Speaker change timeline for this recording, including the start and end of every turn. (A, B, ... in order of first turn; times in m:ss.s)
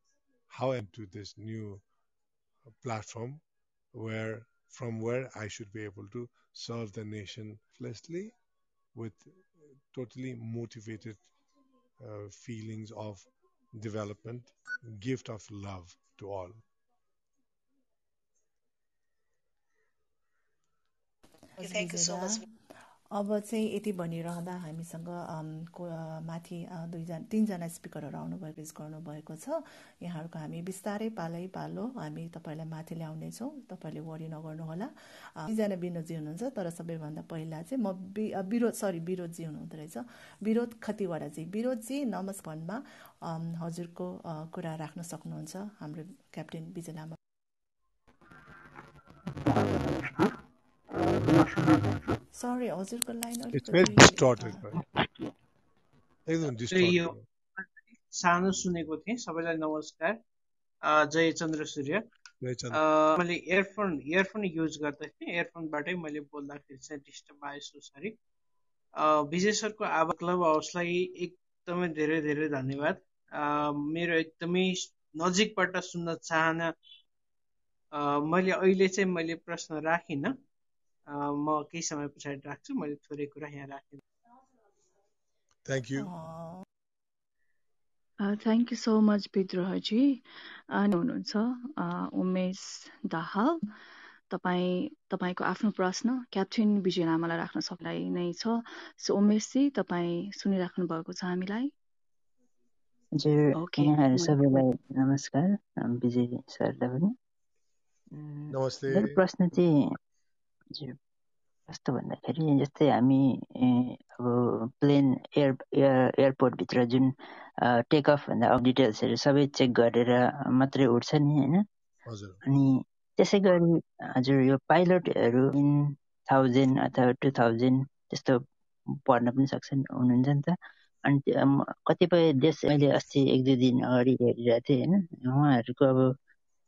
0:00.5-0:01.8 A
0:02.8-0:03.4 A
0:03.9-0:08.3 A
0:09.0-0:09.4 A
0:09.9-0:11.2 A
0:12.0-0:16.6 A
0:21.6-0:22.5 B
0:23.1-0:47.2 B
0:52.3-0:54.6 B
0:53.5-0:54.8 A
0:56.3-0:57.2 A
0:56.7-0:57.1 C
0:58.2-1:00.2 C
1:00.8-1:02.0 C
1:02.4-1:02.8 A
1:02.7-1:08.2 C
1:09.0-1:16.7 C
1:17.9-1:20.3 C
1:21.1-1:24.0 C
1:25.7-1:26.1 A
1:26.0-1:26.6 B
1:28.2-1:33.6 D
1:34.3-1:41.7 D
1:43.2-1:47.1 E
1:43.6-1:44.6 D
1:48.1-1:49.9 E
1:48.5-1:49.2 A
1:51.7-1:57.1 E
1:57.7-2:01.6 E
2:02.1-2:02.4 A
2:02.4-2:08.4 E
2:09.1-2:16.1 E